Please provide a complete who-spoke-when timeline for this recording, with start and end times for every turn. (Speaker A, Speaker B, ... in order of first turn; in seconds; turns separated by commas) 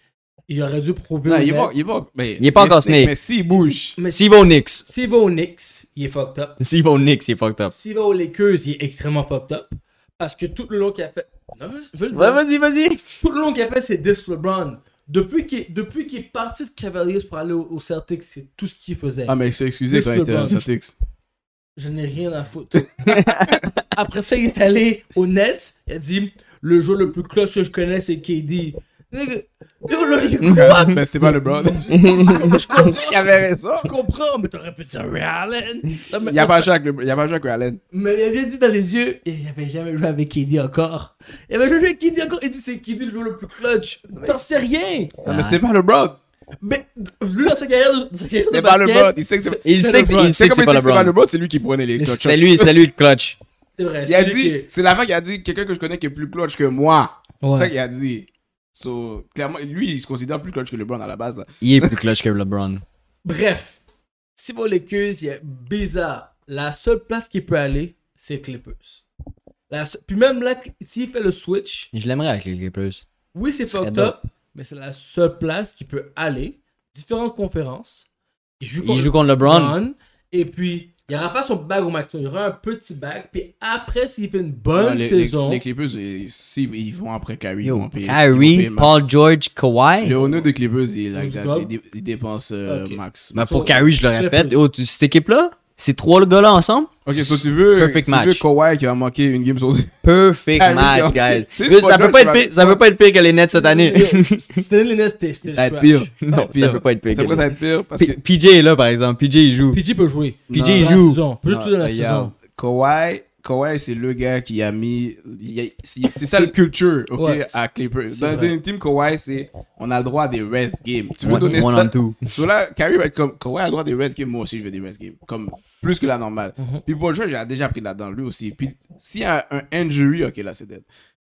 Speaker A: 0.5-1.8, Speaker B: 1.2-4.0, Speaker C: 2.4-3.1, Speaker A: 4.0-4.3, Speaker C: 4.1-4.8, Speaker A: 4.8-6.6, Speaker C: 6.6-7.7, Speaker A: 7.7-12.4, Speaker C: 12.1-13.0, Speaker A: 13.2-19.4, Speaker B: 19.3-20.9, Speaker A: 19.9-20.6, Speaker A: 21.8-23.2, Speaker C: 23.1-23.7, Speaker A: 23.8-33.2, Speaker B: 30.4-33.9, Speaker C: 30.5-30.9, Speaker C: 32.0-32.6, Speaker A: 33.8-36.7, Speaker B: 36.2-37.8, Speaker A: 37.9-45.2, Speaker B: 44.1-44.4, Speaker C: 45.2-45.6, Speaker B: 45.2-46.2, Speaker A: 46.6-50.3, Speaker B: 48.5-52.8, Speaker C: 49.6-51.1, Speaker C: 52.0-53.4, Speaker A: 53.8-54.7, Speaker B: 54.0-62.0, Speaker A: 57.4-57.7, Speaker C: 61.6-62.8, Speaker A: 63.2-63.8, Speaker A: 64.3-69.0, Speaker A: 69.7-71.9, Speaker C: 71.9-73.0, Speaker A: 73.3-78.0, Speaker C: 73.7-74.1, Speaker A: 78.6-85.6, Speaker C: 78.8-79.8, Speaker B: 84.7-89.1, Speaker C: 87.6-90.2, Speaker B: 90.0-93.8, Speaker A: 90.2-90.5, Speaker A: 91.1-91.7, Speaker A: 92.7-94.6, Speaker C: 93.3-98.4, Speaker B: 97.0-99.9, Speaker C: 100.0-104.6, Speaker B: 100.5-102.8, Speaker A: 103.5-106.1, Speaker B: 105.5-108.2, Speaker C: 106.2-109.8, Speaker A: 109.7-112.3, Speaker C: 110.5-111.2, Speaker B: 110.5-130.8, Speaker A: 117.2-118.5, Speaker C: 121.2-122.3, Speaker A: 121.3-121.6, Speaker A: 126.6-126.8